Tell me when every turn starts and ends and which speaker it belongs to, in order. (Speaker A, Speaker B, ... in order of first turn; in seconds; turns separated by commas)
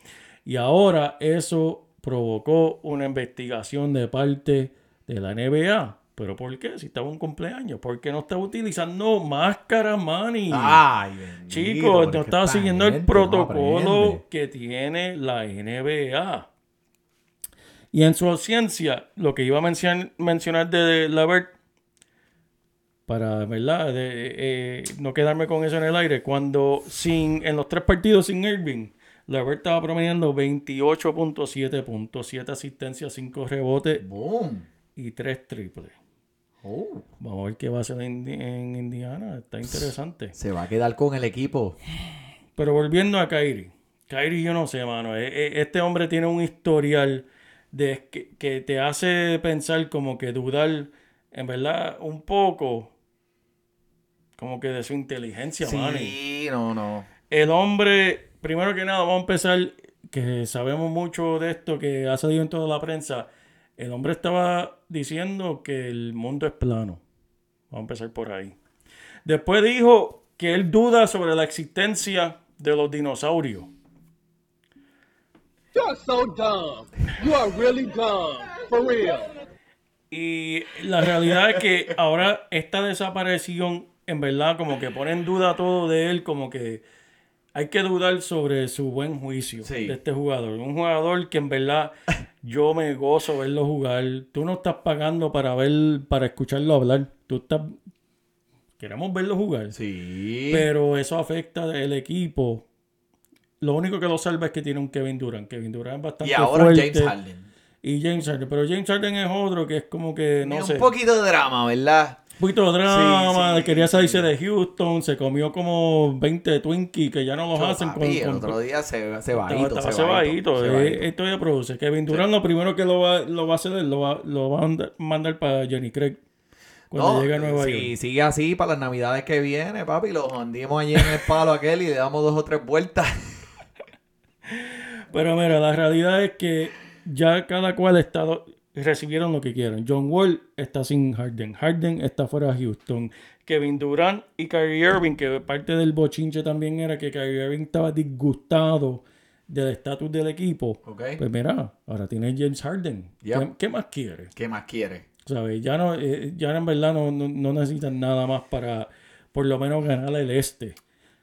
Speaker A: 0.5-10.8, Speaker B: 10.5-14.2, Speaker A: 11.5-16.4, Speaker A: 17.9-21.5, Speaker A: 23.1-34.0, Speaker B: 34.0-34.6, Speaker A: 35.0-35.9, Speaker B: 36.6-37.0, Speaker A: 37.2-40.3, Speaker B: 40.3-41.8, Speaker A: 42.5-52.9, Speaker A: 54.4-56.1, Speaker B: 55.6-57.1, Speaker A: 57.3-67.0, Speaker A: 67.7-68.5, Speaker A: 69.2-73.7, Speaker C: 75.7-79.3, Speaker A: 80.1-86.8, Speaker A: 87.5-97.8, Speaker B: 89.6-90.0, Speaker A: 98.8-99.7, Speaker B: 99.7-100.7, Speaker A: 100.5-102.6, Speaker A: 103.6-107.1, Speaker B: 106.2-107.5, Speaker A: 107.8-110.9, Speaker B: 110.4-112.2, Speaker A: 112.4-118.6, Speaker B: 112.8-114.3, Speaker B: 117.5-121.0, Speaker A: 119.3-126.2, Speaker A: 126.9-127.9, Speaker B: 126.9-133.2, Speaker A: 134.5-154.3, Speaker B: 150.8-151.2, Speaker B: 154.3-155.0, Speaker A: 155.2-160.8